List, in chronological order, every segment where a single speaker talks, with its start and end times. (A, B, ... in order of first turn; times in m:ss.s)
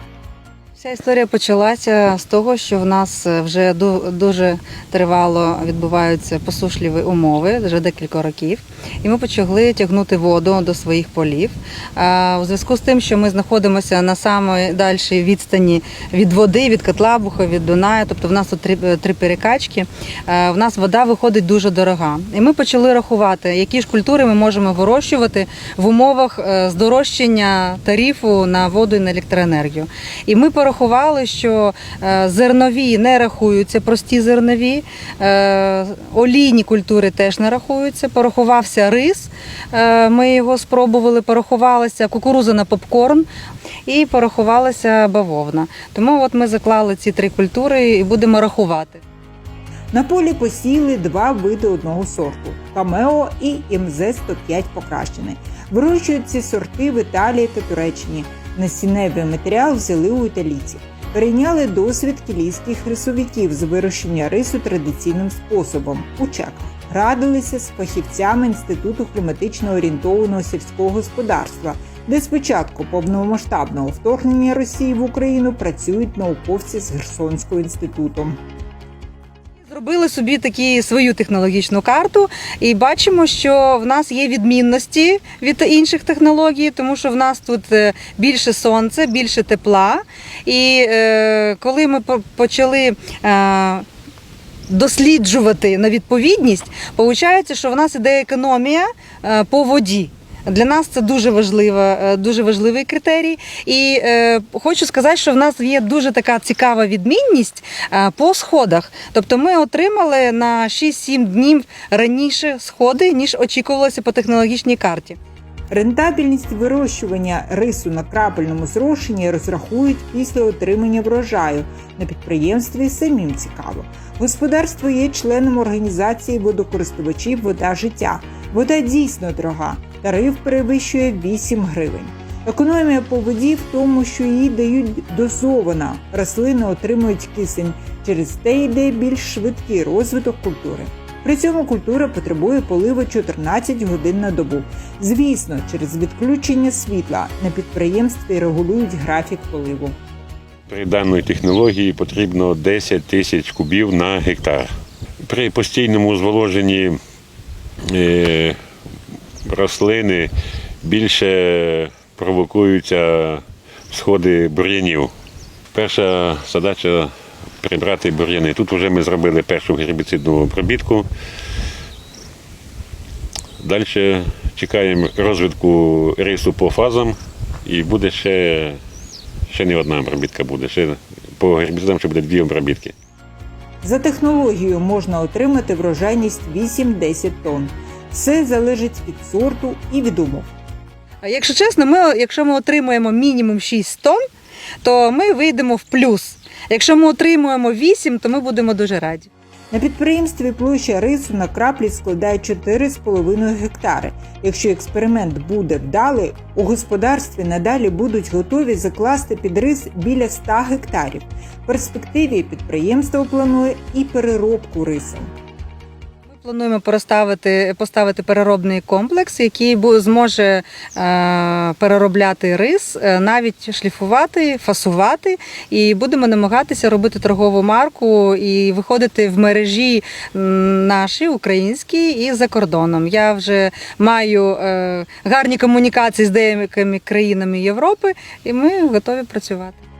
0:00.8-0:43.3 A
0:43.8-0:49.0 A
0:49.9-1:18.4 B
1:19.7-1:33.8 A
1:34.7-1:55.2 A
1:55.7-2:30.0 B
2:30.7-2:34.7 C
2:35.2-2:37.0 C
2:37.9-2:38.6 C
2:39.4-2:40.3 C
2:40.8-2:45.1 C
2:45.7-2:51.1 C
2:53.6-2:58.8 C
2:59.5-3:02.9 C
3:03.8-3:10.5 B
3:11.2-3:14.2 A
3:14.8-3:19.3 A
3:19.7-3:35.3 B
3:36.3-3:59.8 A